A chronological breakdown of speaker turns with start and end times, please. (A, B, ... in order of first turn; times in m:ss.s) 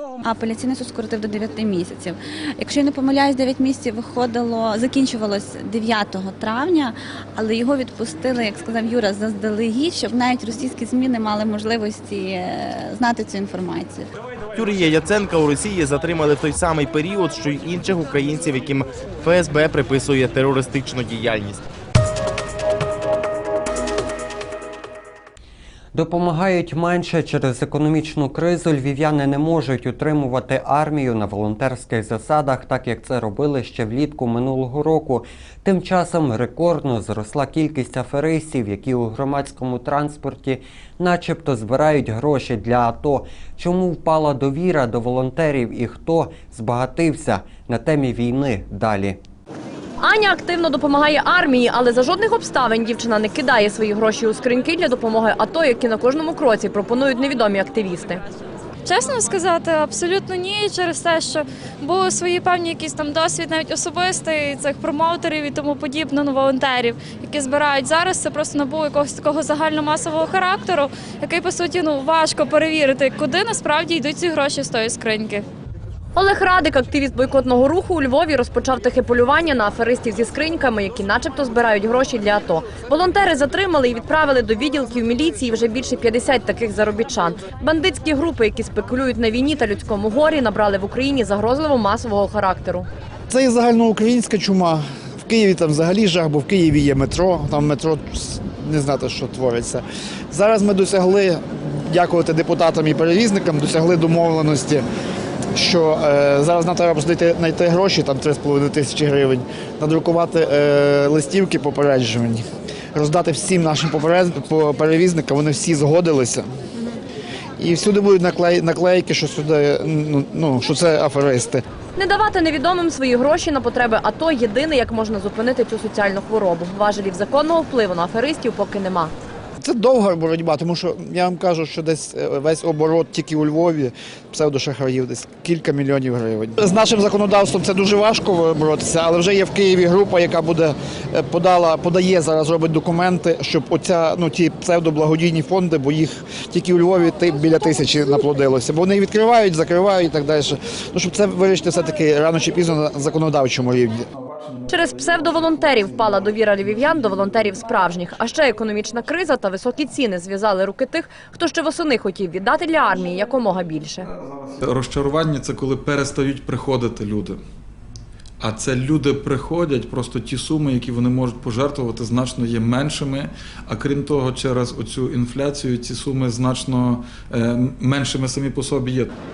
0:00.3-0:14.0 A
0:14.6-0:21.6 B
0:26.0-0:49.2 C
0:50.0-0:58.2 D
0:58.9-1:15.4 E
1:16.2-1:32.9 D
1:33.3-1:44.8 F
1:45.6-1:52.4 F
1:52.9-1:56.5 F
1:57.6-2:01.6 F
2:02.0-2:09.1 D
2:09.6-2:34.0 F
2:34.7-2:44.1 D
2:34.9-2:35.7 G
2:44.0-2:47.4 G
2:48.4-2:59.1 G